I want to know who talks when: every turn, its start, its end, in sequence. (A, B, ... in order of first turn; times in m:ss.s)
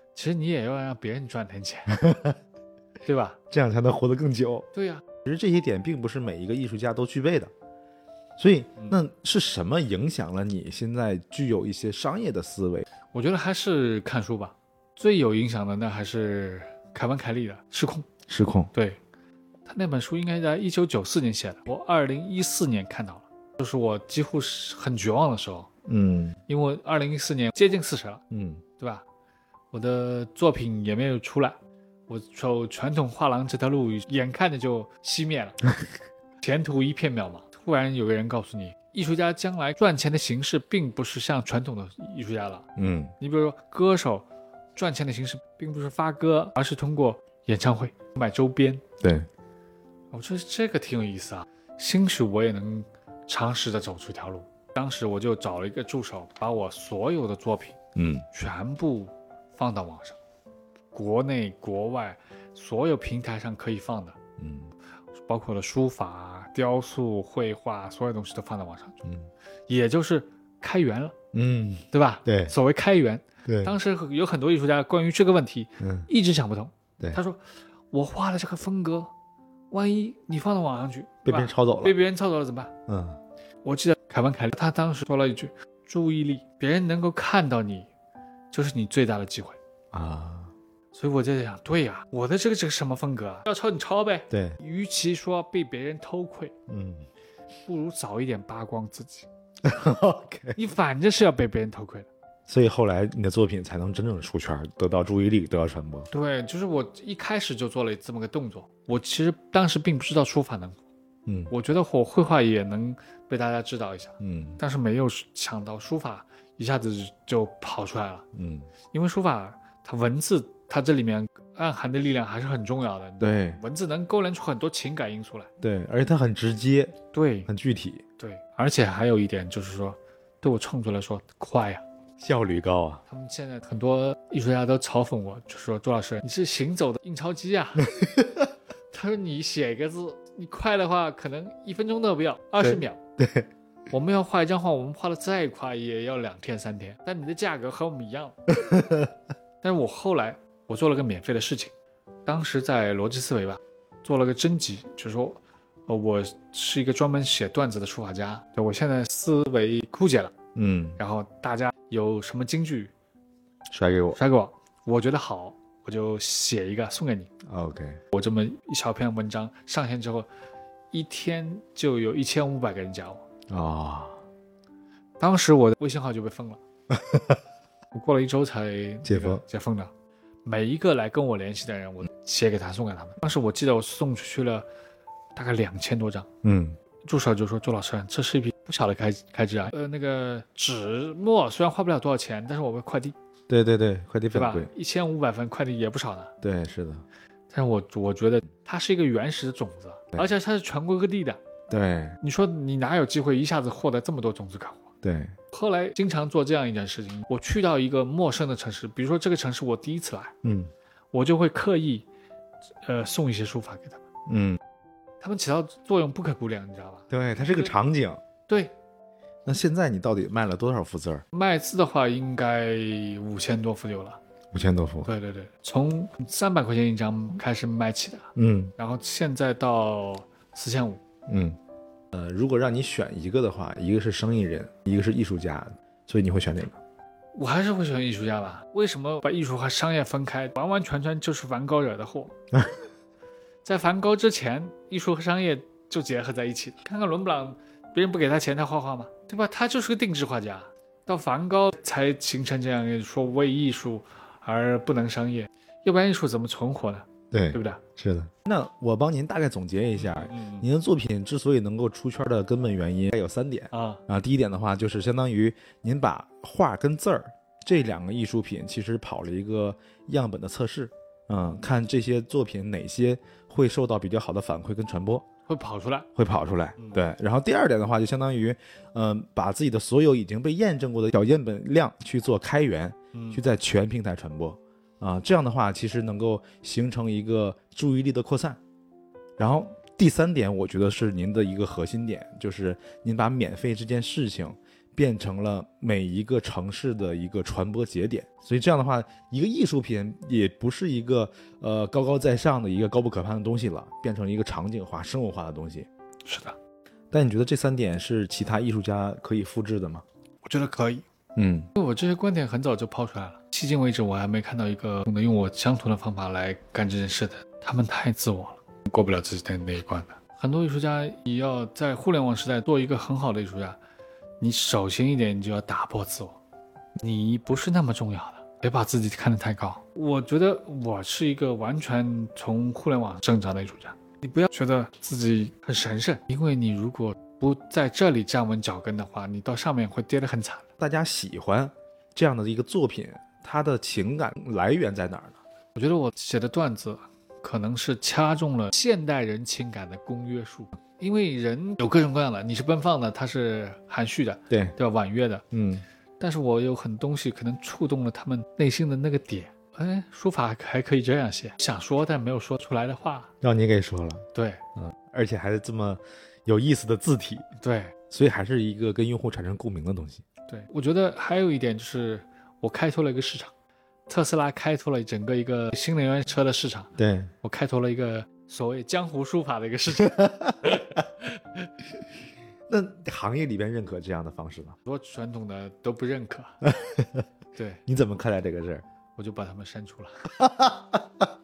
0:00.2-0:02.0 A
0:01.9-0:02.4 B
0:03.0-0:03.4 A
0:03.5-0:04.7 B
0:04.7-0:05.0 A
0:05.2-0:07.5 B
0:08.4-0:12.8 B
0:13.1-0:18.1 A
0:18.3-0:18.7 B
0:18.7-0:19.0 A
0:19.7-0:25.7 A
0:25.9-0:26.4 B
0:26.5-0:28.2 A
0:28.3-0:28.6 B
0:28.8-0:29.0 A
0:29.7-0:31.6 A
0:32.1-0:35.6 A
0:36.4-0:42.7 A
0:42.8-0:43.2 B
0:43.2-0:48.8 A
0:49.0-0:49.3 B
0:50.1-0:57.8 A
0:58.0-0:58.3 B
0:58.3-1:00.2 A
1:00.9-1:04.2 A
1:04.4-1:04.7 B
1:05.3-1:09.0 A
1:09.7-1:11.2 A
1:11.3-1:12.5 B
1:11.9-1:19.1 A
1:13.5-1:13.8 B
1:15.8-1:16.1 B
1:19.7-1:22.7 A
1:21.2-1:22.0 B
1:22.9-1:23.2 B
1:23.6-1:27.9 A
1:28.5-1:29.6 A
1:29.9-1:30.5 B
1:30.9-1:36.5 A
1:34.3-1:34.6 B
1:36.7-1:37.1 B
1:37.6-1:39.3 A
1:39.6-1:40.6 B
1:40.6-1:42.1 A
1:42.5-1:46.1 B
1:46.1-1:50.8 A
1:51.3-1:51.5 B
1:51.5-1:58.2 A
1:54.2-1:54.6 B
1:58.3-1:58.7 B
1:58.9-2:05.5 A
2:03.2-2:03.6 B
2:05.6-2:08.0 B
2:07.1-2:07.5 A
2:08.2-2:11.8 A
2:12.2-2:13.0 B
2:13.1-2:17.9 A
2:17.9-2:18.5 B
2:18.9-2:23.0 A
2:22.6-2:23.5 B
2:23.9-2:28.4 A
2:28.5-2:29.1 B
2:29.6-2:31.7 A
2:32.3-2:40.4 A
2:40.6-2:41.0 B
2:41.0-2:42.9 A
2:43.7-2:44.2 B
2:44.1-2:47.3 A
2:47.4-2:48.0 B
2:48.1-2:50.3 A
2:50.9-2:53.2 A
2:53.5-2:54.2 B
2:55.2-2:56.6 A
2:56.9-2:57.4 B
2:57.9-2:59.9 A
2:59.0-2:59.4 B
3:00.4-3:04.7 A
3:05.4-3:06.3 A
3:06.4-3:06.8 B
3:07.0-3:13.2 A
3:13.5-3:14.7 B
3:14.3-3:16.3 A
3:16.4-3:17.0 B
3:17.5-3:21.4 A
3:21.7-3:22.2 B
3:22.2-3:24.9 A
3:25.0-3:25.4 B
3:25.5-3:30.4 A
3:30.4-3:30.7 B
3:31.1-3:32.1 A
3:32.8-3:34.0 A
3:34.3-3:34.6 B
3:35.2-3:37.7 A
3:37.1-3:38.2 B
3:38.5-3:38.7 A
3:39.4-3:41.2 B
3:41.3-3:44.2 A
3:44.5-3:45.1 B
3:45.0-3:51.0 A
3:48.4-3:48.7 B
3:51.3-3:51.6 B
3:52.1-3:56.8 B
3:57.4-4:02.3 A
4:02.5-4:02.8 B
4:03.6-4:17.8 A
4:17.3-4:35.2 B
4:20.0-4:20.7 A
4:23.7-4:24.0 A
4:35.5-4:36.1 A
4:36.2-4:48.6 B
4:36.8-4:37.0 A
4:43.1-4:43.4 A
4:49.4-5:05.9 B
5:06.2-5:06.6 A
5:07.1-5:10.0 B
5:10.4-5:11.0 A
5:11.4-5:11.7 B
5:11.8-5:23.8 A
5:24.4-5:26.4 A
5:27.0-5:40.7 A
5:40.8-5:45.4 B
5:45.8-5:55.4 A
5:54.5-5:54.8 B
5:55.5-5:55.8 B
5:56.2-6:03.3 A
6:03.4-6:07.5 B
6:04.3-6:04.6 A
6:07.6-6:08.0 A
6:08.1-6:10.2 B
6:10.5-6:13.5 A
6:14.1-6:21.6 A
6:17.0-6:17.3 B
6:20.0-6:21.0 B
6:22.7-6:24.8 B
6:24.9-6:26.7 A
6:26.6-6:27.3 B
6:27.6-6:27.8 A
6:27.9-6:28.8 B
6:29.2-6:30.3 A
6:30.4-6:31.2 B